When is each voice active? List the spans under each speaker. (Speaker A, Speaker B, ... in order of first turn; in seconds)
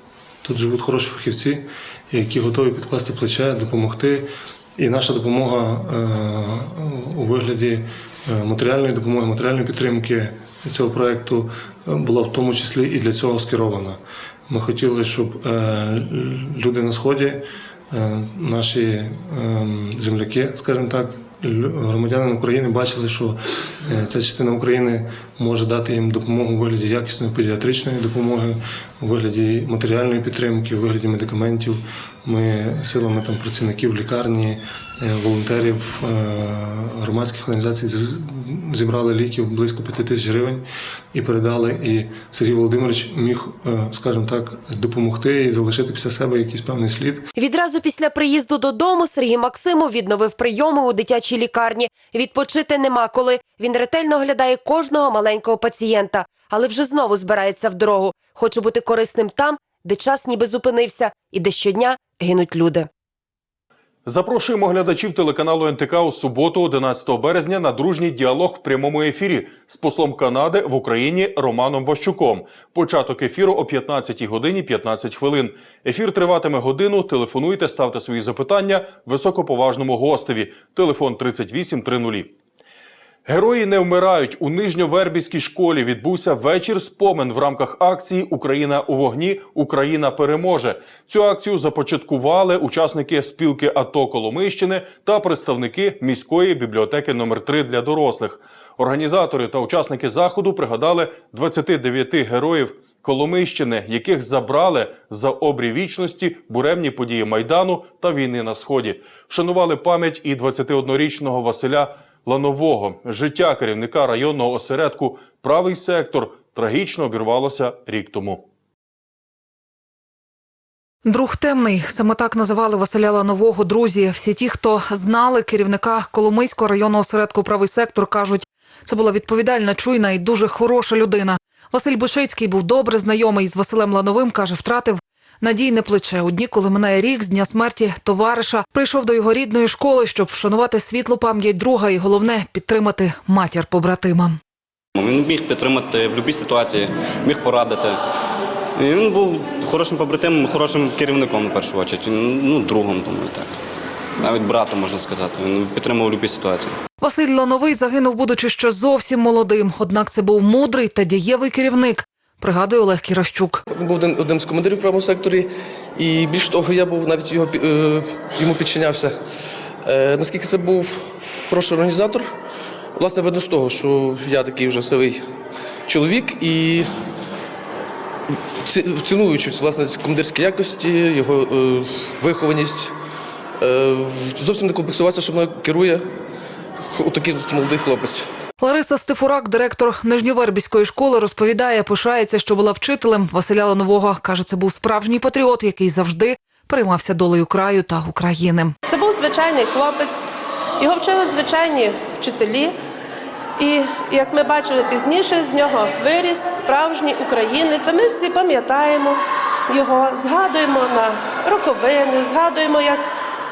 Speaker A: 0.4-47.3
Speaker B: 47.4-62.9
Speaker C: 64.0-82.3, 83.2-118.4
Speaker D: 121.0-144.4, 157.0-163.6, 188.6-198.7
Speaker E: 144.9-148.0, 148.8-153.5, 154.2-156.7
Speaker F: 163.7-165.4, 166.0-169.1, 169.9-171.0, 171.5-172.2, 173.0-175.1, 175.9-176.8, 178.7-182.9, 183.6-186.0, 186.8-188.2
Speaker G: 198.9-200.2, 200.8-202.7, 203.6-213.0